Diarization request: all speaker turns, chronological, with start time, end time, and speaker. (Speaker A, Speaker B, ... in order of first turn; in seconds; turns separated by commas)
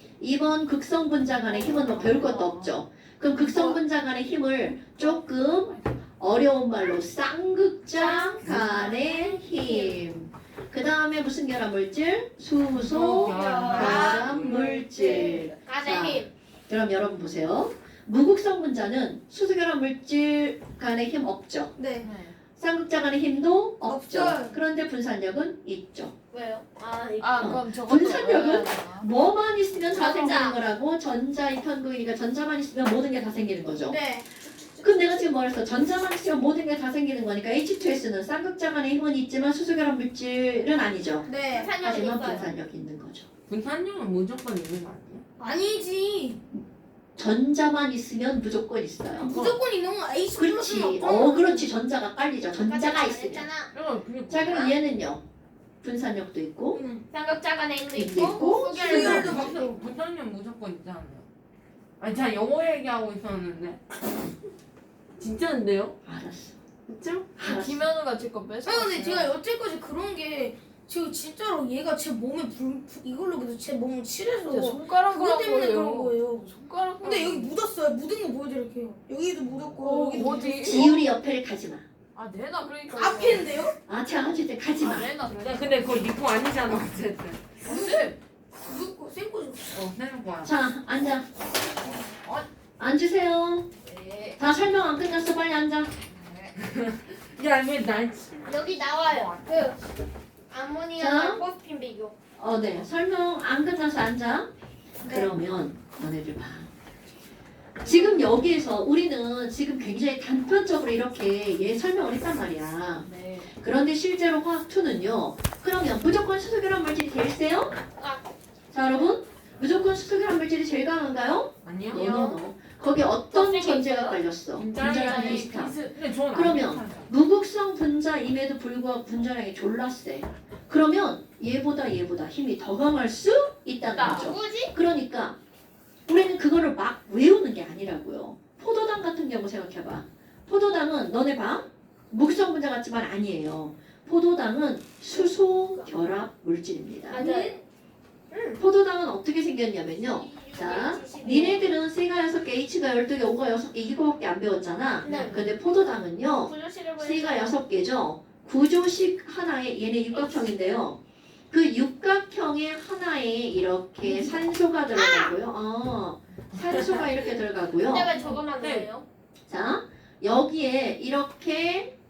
Speaker A: 0.2-21.7, Speaker B: 1.5-2.7, Speaker C: 1.9-2.6, Speaker D: 3.4-3.7, Speaker E: 7.9-10.0, Speaker B: 12.8-14.8, Speaker D: 13.1-14.5, Speaker C: 13.3-13.8, Speaker E: 13.6-14.5, Speaker E: 15.5-16.3, Speaker D: 21.8-22.1, Speaker B: 22.0-22.4, Speaker A: 22.6-26.1, Speaker D: 23.8-24.6, Speaker E: 26.3-27.6, Speaker C: 27.2-29.1, Speaker B: 27.4-28.3, Speaker A: 27.4-34.0, Speaker E: 29.9-30.6, Speaker D: 33.8-35.2, Speaker A: 34.8-41.3, Speaker D: 41.3-41.7, Speaker E: 41.5-42.5, Speaker A: 41.8-43.3, Speaker B: 43.5-45.2, Speaker D: 45.4-46.4, Speaker A: 47.2-49.4, Speaker D: 49.2-51.7, Speaker B: 49.3-49.6, Speaker A: 50.4-53.5, Speaker E: 52.6-53.7, Speaker B: 53.7-54.8, Speaker A: 54.3-55.2, Speaker A: 55.8-56.8, Speaker D: 56.7-57.0, Speaker E: 57.1-59.6, Speaker A: 58.0-59.3, Speaker D: 58.8-59.8, Speaker B: 59.0-61.3, Speaker B: 62.0-63.9, Speaker B: 65.2-66.0, Speaker A: 66.1-66.6, Speaker B: 66.9-67.6, Speaker A: 67.4-67.9, Speaker C: 67.5-69.2, Speaker D: 68.6-76.5, Speaker B: 68.7-69.3, Speaker B: 74.5-77.4, Speaker C: 74.5-77.5, Speaker D: 77.0-81.1, Speaker B: 79.8-80.9, Speaker C: 79.9-80.7, Speaker A: 80.6-81.8, Speaker C: 82.2-83.4, Speaker B: 82.4-83.6, Speaker D: 82.9-83.8, Speaker A: 83.9-85.1, Speaker C: 84.8-86.0, Speaker B: 84.9-88.1, Speaker D: 87.6-89.9, Speaker B: 89.7-90.5, Speaker A: 90.4-91.3, Speaker A: 92.8-93.7, Speaker B: 93.8-94.4, Speaker A: 94.4-95.9, Speaker B: 96.2-99.8, Speaker E: 98.5-99.8, Speaker E: 100.5-102.2, Speaker A: 101.0-101.4, Speaker A: 102.4-104.5, Speaker A: 105.0-106.7, Speaker D: 105.0-105.3, Speaker E: 107.8-108.3, Speaker A: 107.8-117.8, Speaker B: 113.1-113.5, Speaker E: 118.0-118.3, Speaker A: 118.7-125.8, Speaker B: 121.6-122.1, Speaker E: 121.9-122.4, Speaker E: 123.1-124.2, Speaker B: 124.6-127.1, Speaker E: 125.0-125.5, Speaker A: 126.3-135.4, Speaker E: 133.9-134.7, Speaker B: 134.0-134.2, Speaker A: 136.1-147.2, Speaker E: 147.1-147.6, Speaker D: 147.2-147.6, Speaker E: 148.3-148.6, Speaker A: 148.6-161.0, Speaker E: 150.0-151.7, Speaker E: 155.0-155.4, Speaker B: 155.1-155.5, Speaker E: 156.3-157.6, Speaker E: 160.1-160.6, Speaker A: 161.5-168.1, Speaker E: 164.9-165.3, Speaker B: 166.5-167.1, Speaker E: 167.8-169.1, Speaker B: 168.2-168.9, Speaker A: 169.5-171.9